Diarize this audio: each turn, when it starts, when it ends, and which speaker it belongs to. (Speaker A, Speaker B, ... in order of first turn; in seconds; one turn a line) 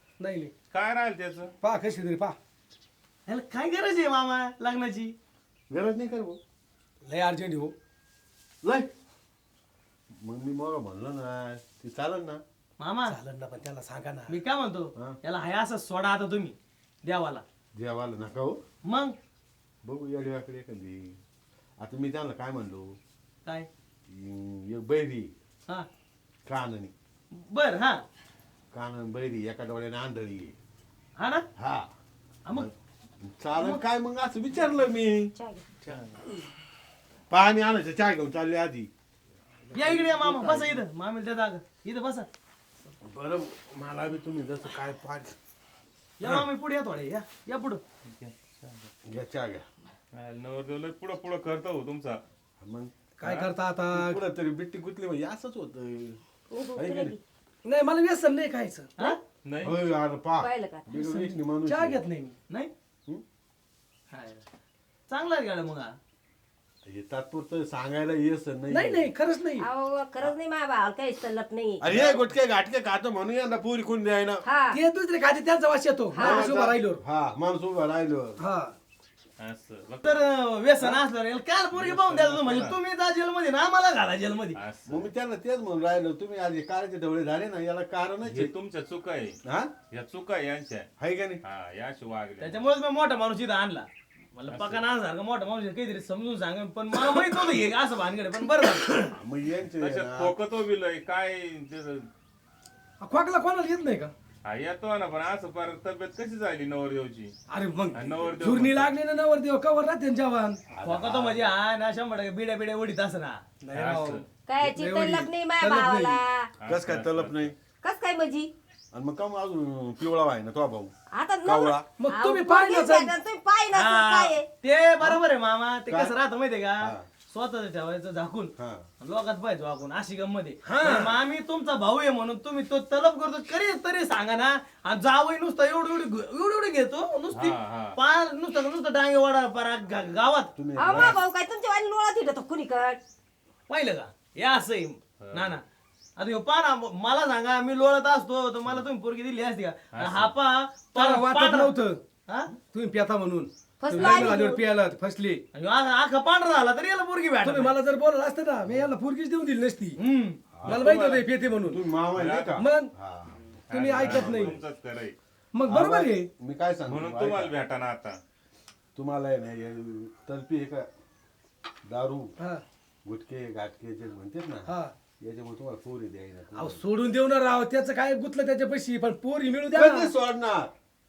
Speaker A: 0.2-0.5
Speaker B: 0.7-1.5
Speaker A: 1.6-2.4
Speaker C: 3.3-5.2
Speaker D: 5.7-6.4
Speaker A: 7.0-7.7
Speaker D: 8.6-8.9
Speaker D: 10.2-12.4
Speaker C: 12.8-13.1
Speaker A: 13.1-14.4
Speaker C: 14.3-17.4
Speaker D: 17.8-18.6
Speaker C: 18.9-19.1
Speaker D: 19.8-21.2
Speaker D: 21.8-22.9
Speaker D: 24.1-25.3
Speaker D: 26.5-26.9
Speaker C: 27.3-28.0
Speaker D: 28.7-30.6
Speaker C: 31.2-31.5
Speaker D: 31.6-31.9
Speaker D: 32.5-35.4
Speaker C: 33.6-33.8
Speaker E: 35.4-35.7
Speaker B: 35.9-36.2
Speaker D: 37.3-38.9
Speaker D: 39.7-40.8
Speaker C: 39.8-42.3
Speaker D: 43.0-45.4
Speaker C: 46.2-47.8
Speaker B: 48.1-48.9
Speaker D: 49.1-49.7
Speaker B: 50.1-52.2
Speaker D: 52.6-52.9
Speaker A: 53.2-54.2
Speaker D: 53.9-56.2
Speaker E: 56.5-57.2
Speaker D: 56.8-57.2
Speaker A: 57.6-59.1
Speaker B: 59.4-59.8
Speaker D: 59.6-62.0
Speaker E: 60.4-60.9
Speaker A: 60.9-62.4
Speaker C: 64.1-64.4
Speaker C: 65.1-66.0
Speaker D: 66.9-69.1
Speaker A: 68.7-69.7
Speaker E: 69.6-71.8
Speaker D: 71.8-74.5
Speaker B: 71.9-72.3
Speaker E: 74.5-74.8
Speaker A: 74.7-77.0
Speaker E: 76.1-76.5
Speaker D: 76.2-78.4
Speaker A: 78.4-78.7
Speaker B: 79.4-80.2
Speaker C: 80.0-84.6
Speaker B: 81.7-82.8
Speaker B: 84.5-85.1
Speaker D: 84.9-88.5
Speaker B: 88.2-89.4
Speaker D: 89.5-89.7
Speaker B: 89.9-90.9
Speaker D: 91.0-91.4
Speaker B: 91.5-92.7
Speaker C: 92.4-99.0
Speaker B: 94.5-94.8
Speaker D: 99.1-100.4
Speaker B: 99.8-102.1
Speaker A: 103.0-104.1
Speaker B: 104.5-107.3
Speaker A: 107.5-110.6
Speaker B: 107.9-108.9
Speaker D: 110.7-111.5
Speaker C: 110.8-113.4
Speaker A: 113.6-116.2
Speaker B: 113.7-114.3
Speaker E: 114.5-116.5
Speaker B: 116.6-117.5
Speaker D: 116.7-117.5
Speaker E: 117.8-118.5
Speaker D: 118.9-121.9
Speaker E: 121.1-124.5
Speaker A: 122.0-123.2
Speaker C: 123.7-140.5
Speaker D: 125.9-126.2
Speaker D: 126.8-127.1
Speaker D: 128.6-128.9
Speaker A: 130.6-131.1
Speaker B: 137.3-138.0
Speaker D: 140.6-141.2
Speaker E: 140.8-143.0
Speaker B: 140.9-141.2
Speaker C: 143.7-145.6
Speaker B: 145.2-145.6
Speaker C: 146.2-151.7
Speaker B: 149.9-150.3
Speaker A: 150.9-152.0
Speaker A: 152.7-155.4
Speaker E: 153.8-154.5
Speaker C: 153.9-154.6
Speaker C: 155.5-157.8
Speaker A: 157.4-160.0
Speaker D: 158.6-158.9
Speaker C: 160.0-160.4
Speaker D: 160.6-164.6
Speaker B: 160.6-161.2
Speaker A: 160.7-161.8
Speaker B: 162.2-162.6
Speaker A: 162.6-162.9
Speaker B: 163.7-165.2
Speaker A: 163.7-164.6
Speaker A: 165.5-166.3
Speaker D: 165.7-167.5
Speaker B: 166.9-168.2
Speaker D: 168.9-170.9
Speaker D: 171.8-172.3
Speaker D: 173.1-176.8
Speaker A: 174.7-174.9
Speaker A: 176.6-180.1
Speaker D: 179.7-180.7